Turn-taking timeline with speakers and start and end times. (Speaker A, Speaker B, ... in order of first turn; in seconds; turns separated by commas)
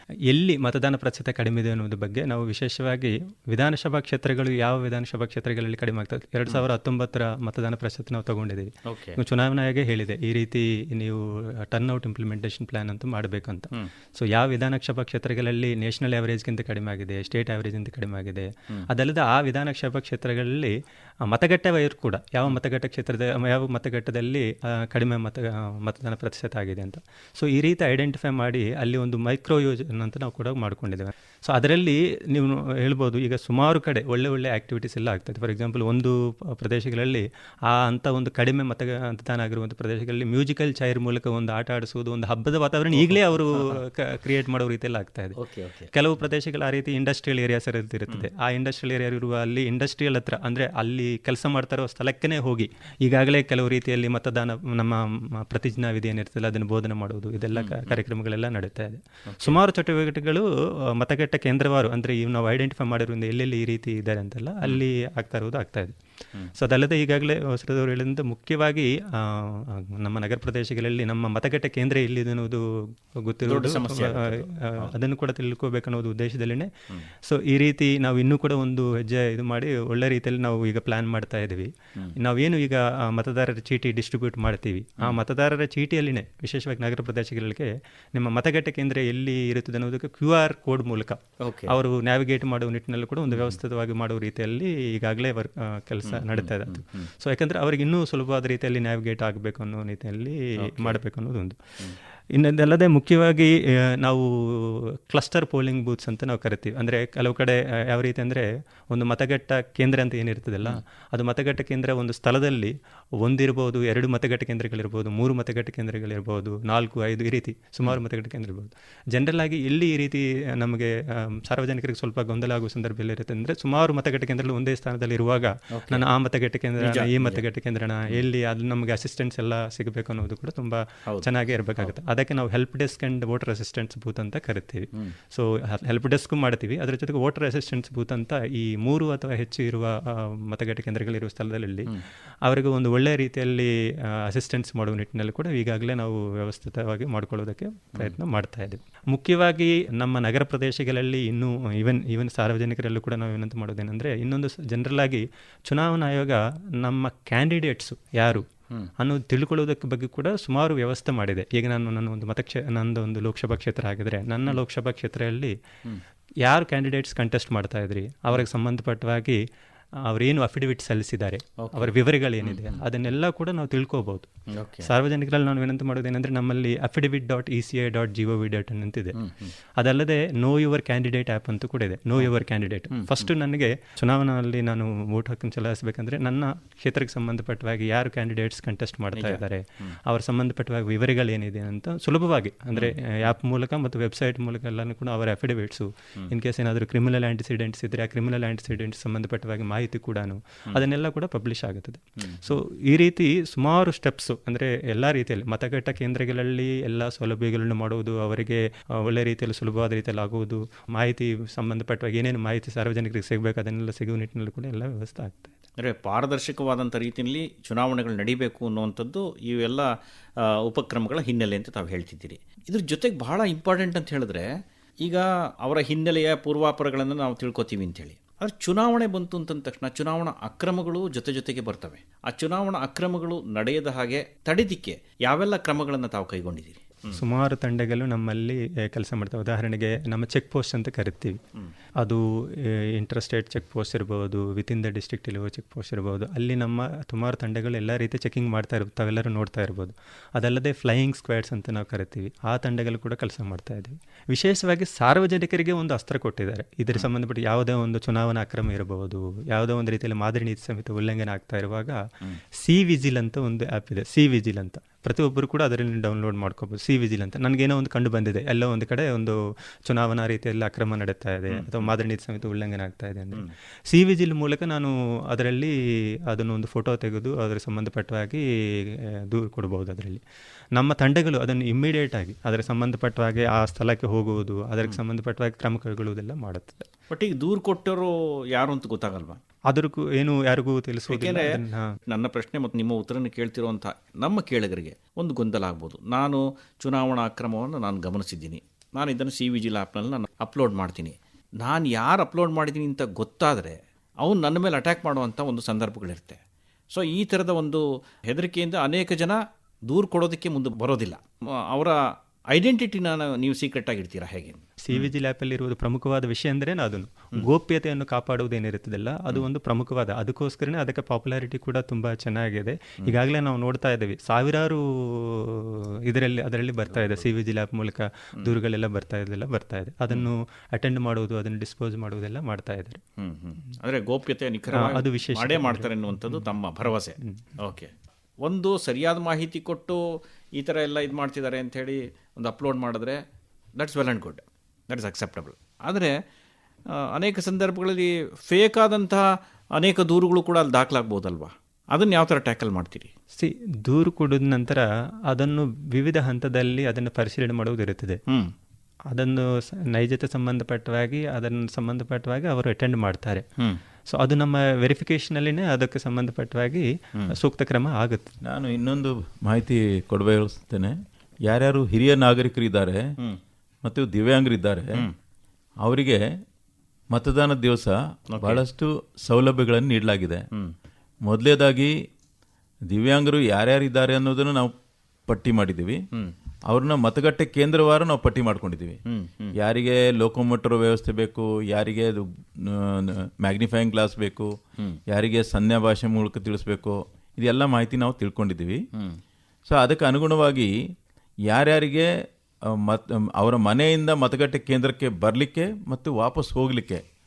Speaker A: 0.3-20.7, Speaker B: 8.9-9.2, Speaker A: 21.2-45.4, Speaker B: 42.9-43.8, Speaker B: 45.4-45.9, Speaker A: 45.9-65.9, Speaker B: 57.6-58.0, Speaker B: 59.3-59.6, Speaker A: 66.6-72.6, Speaker A: 73.2-76.7, Speaker B: 73.5-74.9, Speaker A: 77.2-101.6, Speaker B: 91.4-91.7, Speaker B: 93.3-93.6, Speaker B: 96.0-97.1, Speaker B: 100.6-101.0, Speaker A: 102.4-141.9, Speaker B: 125.8-126.0, Speaker B: 126.8-127.4, Speaker B: 131.1-131.9, Speaker A: 142.5-143.7, Speaker A: 144.3-158.5, Speaker A: 159.0-165.5, Speaker A: 166.4-169.4, Speaker A: 170.1-174.3, Speaker B: 171.6-171.9, Speaker B: 172.4-172.8, Speaker B: 174.6-174.9, Speaker A: 174.8-179.2, Speaker B: 179.2-179.5, Speaker A: 179.8-215.5, Speaker B: 182.9-183.3, Speaker B: 189.1-190.0, Speaker B: 202.2-202.6, Speaker B: 215.8-219.9, Speaker B: 220.6-224.5, Speaker B: 225.0-237.2, Speaker A: 237.1-241.4, Speaker A: 242.0-262.0, Speaker A: 262.6-275.7, Speaker B: 271.5-271.9, Speaker A: 276.3-278.4, Speaker A: 279.3-280.2, Speaker A: 280.8-286.9, Speaker B: 287.1-289.4, Speaker A: 289.7-291.9, Speaker B: 291.1-291.6, Speaker B: 292.1-306.4, Speaker B: 306.9-312.0, Speaker B: 312.5-315.1, Speaker A: 314.8-333.0, Speaker B: 326.9-327.3, Speaker B: 333.2-337.9, Speaker A: 334.7-336.5, Speaker B: 338.4-340.0, Speaker B: 340.6-343.2, Speaker B: 343.8-346.1, Speaker B: 347.1-349.2, Speaker B: 349.8-353.1, Speaker A: 353.4-358.2, Speaker A: 359.1-363.4, Speaker A: 364.1-368.4, Speaker C: 368.4-373.0, Speaker C: 373.9-375.1, Speaker C: 375.8-376.2, Speaker C: 377.1-380.4, Speaker B: 378.4-378.6, Speaker C: 381.3-381.9, Speaker C: 382.9-384.7, Speaker C: 385.3-386.0, Speaker C: 386.7-389.0, Speaker B: 389.1-389.5, Speaker C: 389.6-394.5, Speaker C: 395.1-398.8, Speaker C: 399.7-400.7, Speaker C: 401.5-402.1, Speaker C: 402.7-407.0